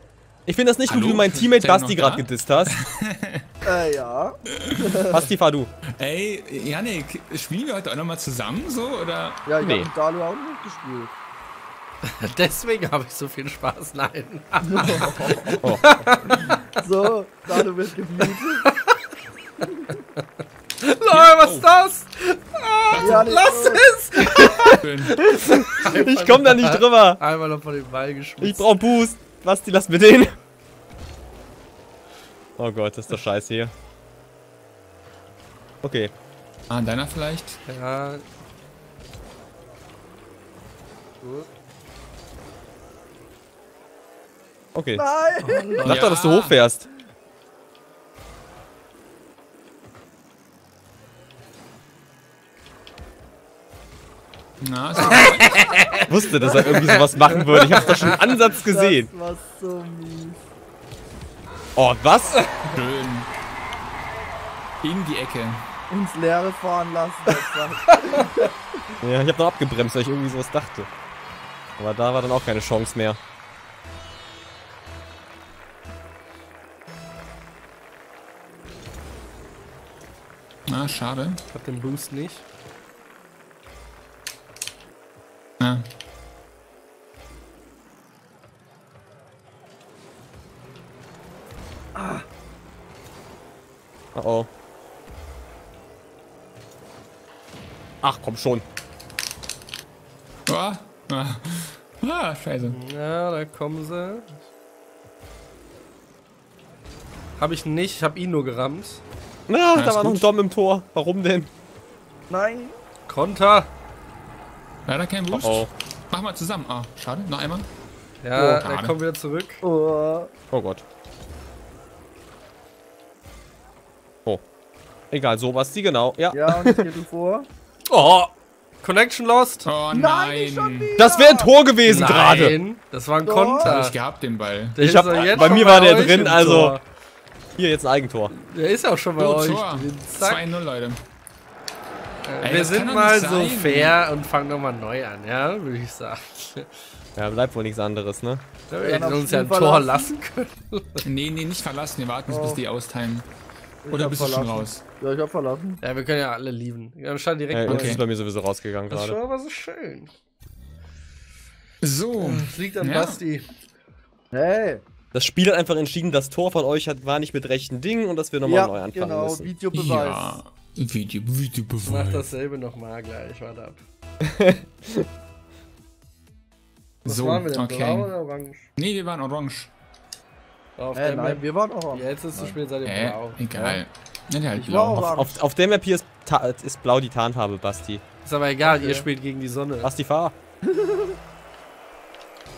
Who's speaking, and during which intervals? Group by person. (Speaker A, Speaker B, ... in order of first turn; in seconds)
Speaker A: 0.5-2.7, 5.1-5.7, 9.6-9.9, 15.2-15.8, 25.3-27.2, 28.4-30.3, 32.6-33.7, 35.8-36.1, 44.7-45.0, 45.8-46.9, 56.1-59.1, 61.8-62.5, 69.0-70.9, 71.8-73.2, 94.1-94.5, 98.0-98.6, 109.5-111.5, 115.3-115.7, 120.5-120.8, 125.1-126.7, 131.0-132.6, 134.8-136.8, 137.6-138.3, 147.2-148.4, 157.5-159.2, 165.1-169.5, 174.2-175.1, 185.0-188.0, 189.8-190.3
Speaker B: 0.9-2.3, 2.8-3.4, 4.6-4.9, 6.0-9.4, 21.1-21.7, 22.9-23.3, 24.8-25.2, 36.7-37.6, 45.8-46.6, 54.6-55.7, 62.7-63.3, 64.8-65.7, 80.7-81.4, 85.6-85.8, 100.5-102.8, 109.7-110.3, 114.8-117.7, 118.6-119.0, 129.6-130.9, 131.9-132.2, 133.6-135.6, 139.2-141.0, 142.4-144.0, 151.0-153.3, 153.9-154.8, 157.7-158.0, 161.8-163.2, 169.7-172.3, 177.0-178.1, 178.8-179.7, 182.8-185.1
Speaker C: 3.6-5.2, 9.4-11.1, 14.6-15.5, 16.8-18.6, 23.0-23.9, 45.0-45.8, 56.4-57.0, 58.6-60.4, 65.9-68.6, 91.9-92.2, 112.3-112.7, 118.3-118.6, 119.6-120.3, 126.3-127.5, 129.9-131.5, 133.2-133.8, 135.6-135.9, 148.8-150.1, 152.3-152.6, 153.8-155.8, 164.3-164.8, 168.4-170.4, 180.9-182.6, 184.6-185.4, 188.6-189.1, 190.7-191.2
Speaker D: 12.0-16.5, 20.8-28.7, 37.6-38.2, 45.4-46.0, 55.0-56.0, 56.6-58.1, 81.5-82.4, 102.7-104.3, 107.4-109.0, 113.1-113.7, 118.2-119.6, 127.9-129.7, 131.8-133.9, 134.8-136.8, 138.3-140.5, 142.2-146.7, 148.7-151.0, 155.8-158.0, 158.9-160.1, 162.2-163.5, 171.8-173.8, 177.0-178.7, 180.8-183.7, 188.2-189.9